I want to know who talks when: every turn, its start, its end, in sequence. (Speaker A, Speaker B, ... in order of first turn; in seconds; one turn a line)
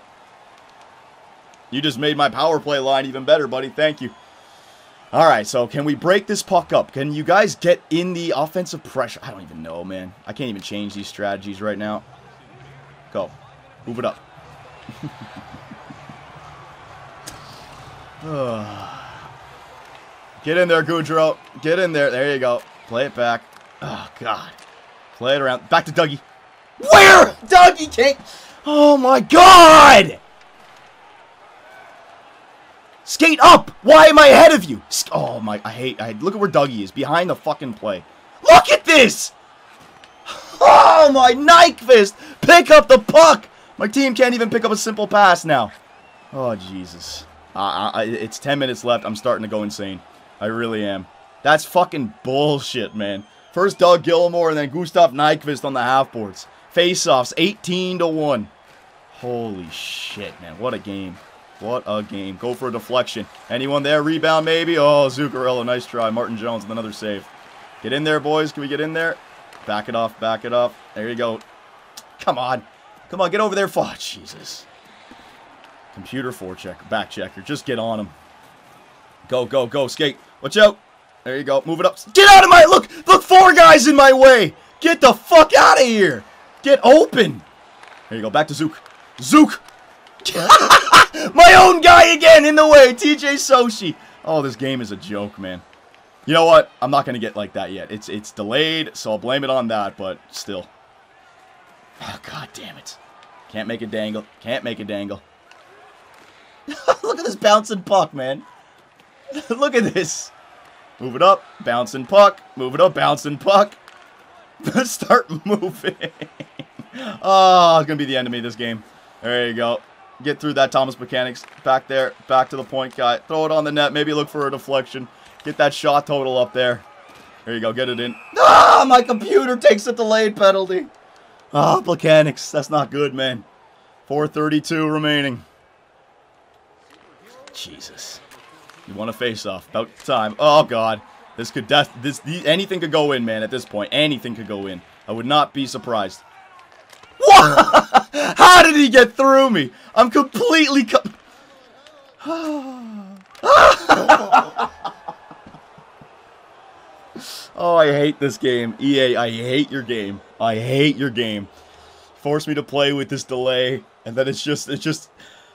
Speaker A: 1.7-4.2
Speaker A: 5.1-12.1
Speaker A: 13.9-14.2
Speaker A: 18.2-19.3
Speaker A: 20.4-24.6
Speaker A: 25.1-26.2
Speaker A: 26.8-30.2
Speaker A: 33.0-39.3
Speaker A: 40.3-45.7
Speaker A: 46.3-58.5
Speaker A: 59.1-67.3
Speaker A: 67.8-71.4
Speaker A: 72.2-74.7
Speaker A: 75.9-78.2
Speaker A: 79.3-87.5
Speaker A: 88.1-89.6
Speaker A: 90.2-95.6
Speaker A: 96.3-100.7
Speaker A: 102.0-105.2
Speaker A: 106.7-108.5
Speaker A: 109.3-110.3
Speaker A: 111.0-113.8
Speaker A: 114.6-116.3
Speaker A: 116.9-126.9
Speaker A: 127.5-130.9
Speaker A: 131.5-133.4
Speaker A: 134.1-135.4
Speaker A: 137.5-138.2
Speaker A: 138.9-146.2
Speaker A: 147.2-151.2
Speaker A: 152.2-154.7
Speaker A: 157.2-161.5
Speaker A: 162.2-165.1